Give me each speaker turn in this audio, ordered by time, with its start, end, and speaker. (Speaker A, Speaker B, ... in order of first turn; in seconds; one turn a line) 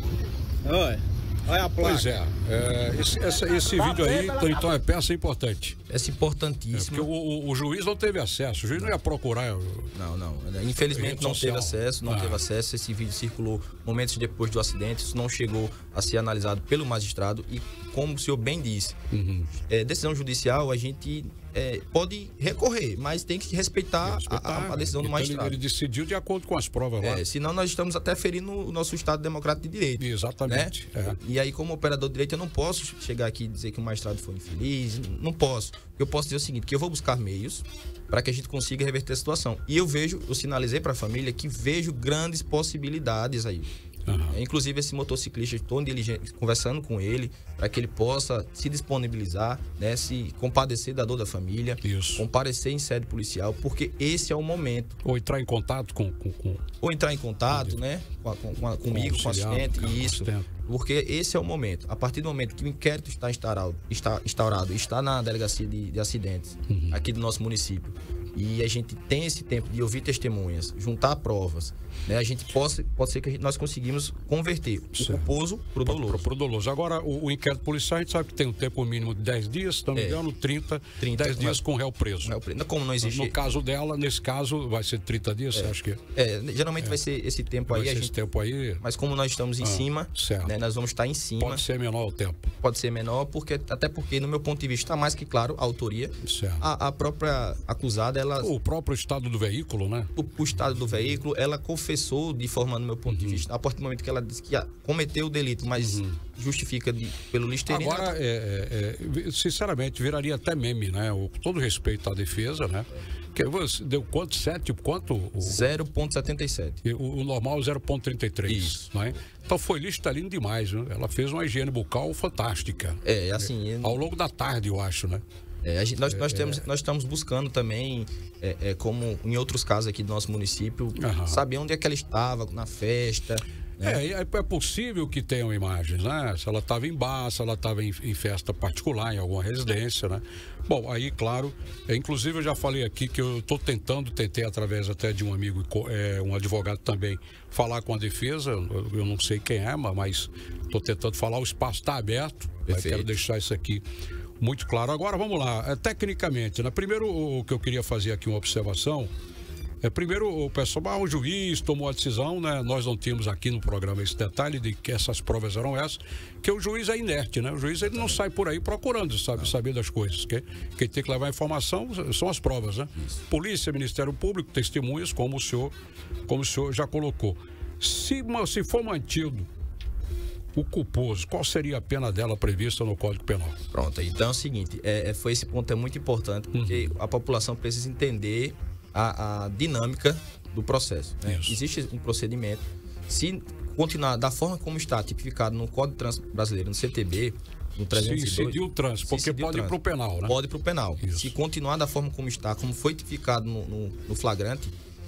Speaker A: 0.6-2.1
Speaker B: 1.8-5.8
Speaker A: 3.7-4.6
Speaker C: 5.9-7.1
Speaker B: 6.7-9.9
Speaker C: 9.9-18.9
Speaker B: 10.9-12.4
Speaker B: 19.1-19.5
Speaker C: 19.7-25.6
Speaker B: 24.0-27.2
Speaker C: 27.0-43.7
Speaker B: 30.0-31.2
Speaker B: 44.1-44.4
Speaker C: 44.3-55.0
Speaker B: 51.8-52.2
Speaker B: 55.0-56.6
Speaker C: 56.8-76.2
Speaker B: 58.9-60.5
Speaker B: 66.7-67.1
Speaker B: 75.0-75.3
Speaker B: 75.8-82.3
Speaker C: 79.9-80.2
Speaker C: 81.0-81.6
Speaker C: 82.2-83.3
Speaker B: 83.0-86.0
Speaker C: 85.5-88.1
Speaker B: 87.7-88.8
Speaker C: 88.8-91.7
Speaker B: 89.6-90.5
Speaker B: 91.4-92.5
Speaker C: 92.6-98.5
Speaker B: 96.2-96.7
Speaker B: 98.4-100.1
Speaker C: 100.2-108.1
Speaker B: 103.1-103.4
Speaker B: 105.8-106.2
Speaker B: 107.7-115.7
Speaker C: 115.4-116.8
Speaker B: 116.8-125.2
Speaker C: 118.5-118.9
Speaker C: 123.0-124.0
Speaker C: 125.6-134.0
Speaker B: 126.1-126.6
Speaker B: 131.0-131.4
Speaker B: 133.8-153.8
Speaker C: 152.7-153.1
Speaker B: 154.4-159.1
Speaker B: 159.8-175.7
Speaker C: 167.8-168.2
Speaker B: 176.3-179.5
Speaker B: 180.5-183.6
Speaker C: 183.7-204.7
Speaker B: 186.5-187.0
Speaker B: 191.2-191.6
Speaker B: 197.9-200.3
Speaker B: 201.0-201.3